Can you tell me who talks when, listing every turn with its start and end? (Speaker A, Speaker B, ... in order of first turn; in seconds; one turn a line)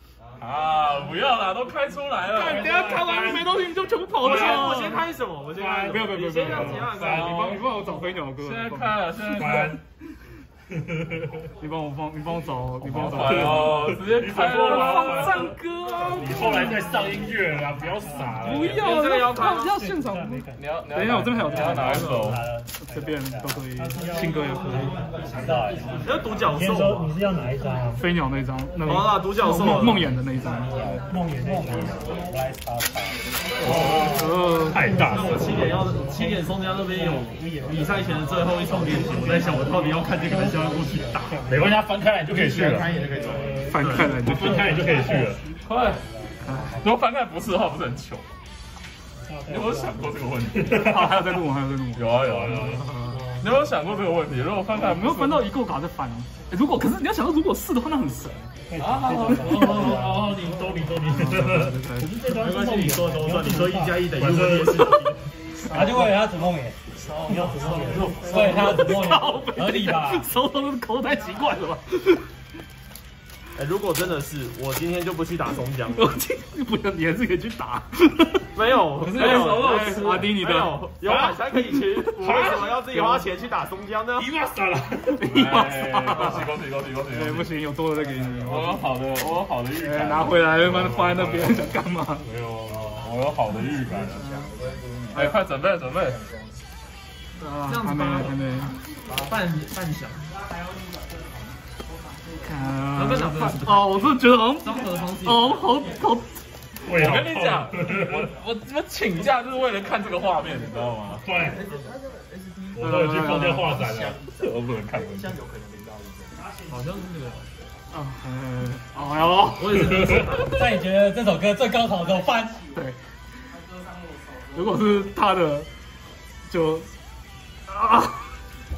Speaker A: 0.4-2.7
Speaker B: 2.3-5.0
Speaker C: 2.4-3.5
Speaker D: 4.2-8.0
Speaker C: 4.2-4.8
Speaker C: 5.5-7.5
Speaker B: 5.9-9.2
Speaker A: 8.3-9.8
Speaker C: 9.3-9.8
Speaker C: 10.7-11.5
Speaker B: 11.6-13.9
Speaker C: 12.8-18.9
Speaker A: 13.0-15.5
Speaker B: 14.5-16.9
Speaker E: 18.0-18.4
Speaker B: 18.4-25.0
Speaker D: 18.6-19.9
Speaker E: 19.6-20.6
Speaker A: 20.5-22.5
Speaker E: 21.5-28.0
Speaker D: 26.0-27.1
Speaker B: 28.0-31.1
Speaker D: 28.8-30.1
Speaker E: 31.1-33.2
Speaker C: 31.3-32.0
Speaker C: 33.6-35.5
Speaker A: 33.7-34.1
Speaker D: 33.7-34.0
Speaker B: 34.0-34.8
Speaker E: 34.7-41.5
Speaker D: 35.1-41.6
Speaker C: 41.5-43.0
Speaker D: 42.4-44.3
Speaker E: 43.0-43.9
Speaker B: 43.7-44.8
Speaker C: 44.2-45.4
Speaker E: 44.5-46.9
Speaker A: 45.6-46.0
Speaker B: 46.4-46.8
Speaker A: 46.7-48.3
Speaker E: 49.2-50.1
Speaker A: 49.5-51.0
Speaker C: 50.5-51.0
Speaker B: 50.7-53.2
Speaker A: 51.9-55.5
Speaker C: 52.3-53.3
Speaker B: 54.7-58.5
Speaker E: 58.7-60.3
Speaker A: 58.8-59.6
Speaker D: 59.2-60.8
Speaker C: 59.6-63.2
Speaker B: 61.1-62.1
Speaker D: 62.2-66.1
Speaker E: 63.1-64.1
Speaker C: 64.1-64.9
Speaker E: 65.7-70.3
Speaker B: 65.7-66.0
Speaker D: 67.1-68.5
Speaker B: 68.4-72.3
Speaker D: 73.5-76.2
Speaker B: 75.9-78.5
Speaker D: 78.5-84.3
Speaker B: 79.0-82.7
Speaker A: 79.1-80.2
Speaker C: 81.0-81.4
Speaker C: 82.2-83.1
Speaker C: 84.2-85.3
Speaker B: 85.1-86.5
Speaker A: 85.3-87.5
Speaker B: 87.1-88.9
Speaker A: 88.4-90.6
Speaker B: 89.8-92.3
Speaker C: 90.6-93.1
Speaker A: 93.0-94.3
Speaker B: 94.1-94.5
Speaker A: 95.1-96.3
Speaker B: 97.4-98.8
Speaker D: 97.7-98.3
Speaker D: 99.1-100.3
Speaker B: 102.4-106.3
Speaker D: 102.9-105.6
Speaker A: 106.9-111.3
Speaker C: 106.9-108.3
Speaker C: 111.2-111.6
Speaker D: 111.3-117.5
Speaker C: 112.7-114.2
Speaker B: 112.8-113.8
Speaker A: 114.3-115.4
Speaker B: 117.9-120.2
Speaker D: 119.5-120.7
Speaker E: 120.4-122.7
Speaker B: 122.7-123.0
Speaker B: 124.5-125.7
Speaker B: 126.5-126.9
Speaker B: 127.7-128.3